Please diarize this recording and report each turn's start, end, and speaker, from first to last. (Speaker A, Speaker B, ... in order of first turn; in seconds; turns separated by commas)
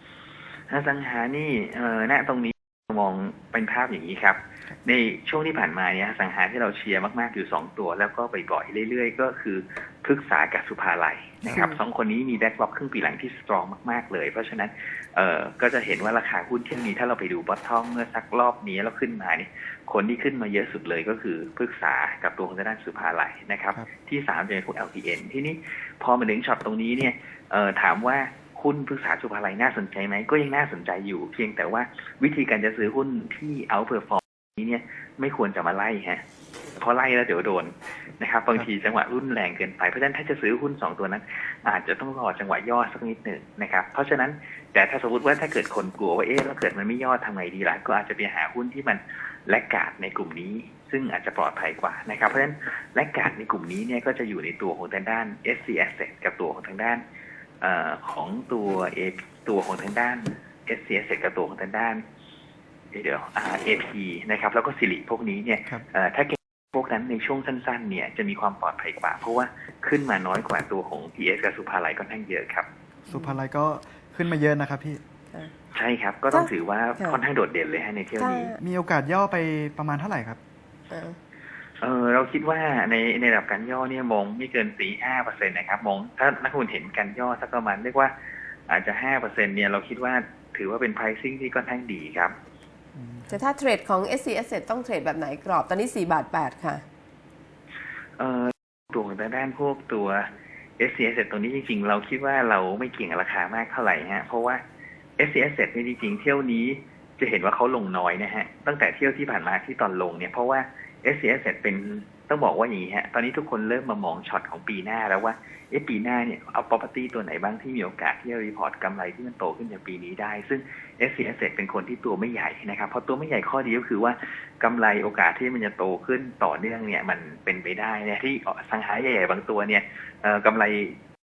Speaker A: 0.7-36.2, Speaker B: 11.5-11.8, Speaker A: 36.7-57.0, Speaker A: 57.6-62.0, Speaker A: 62.9-72.7, Speaker C: 73.1-75.0, Speaker B: 73.1-73.4, Speaker A: 75.7-78.5, Speaker B: 76.3-77.2, Speaker B: 78.2-78.6, Speaker C: 78.6-80.4, Speaker B: 80.9-81.2, Speaker A: 81.8-88.1, Speaker A: 88.7-92.3, Speaker C: 93.0-93.4, Speaker B: 93.3-96.8, Speaker A: 98.2-104.6, Speaker A: 105.2-131.0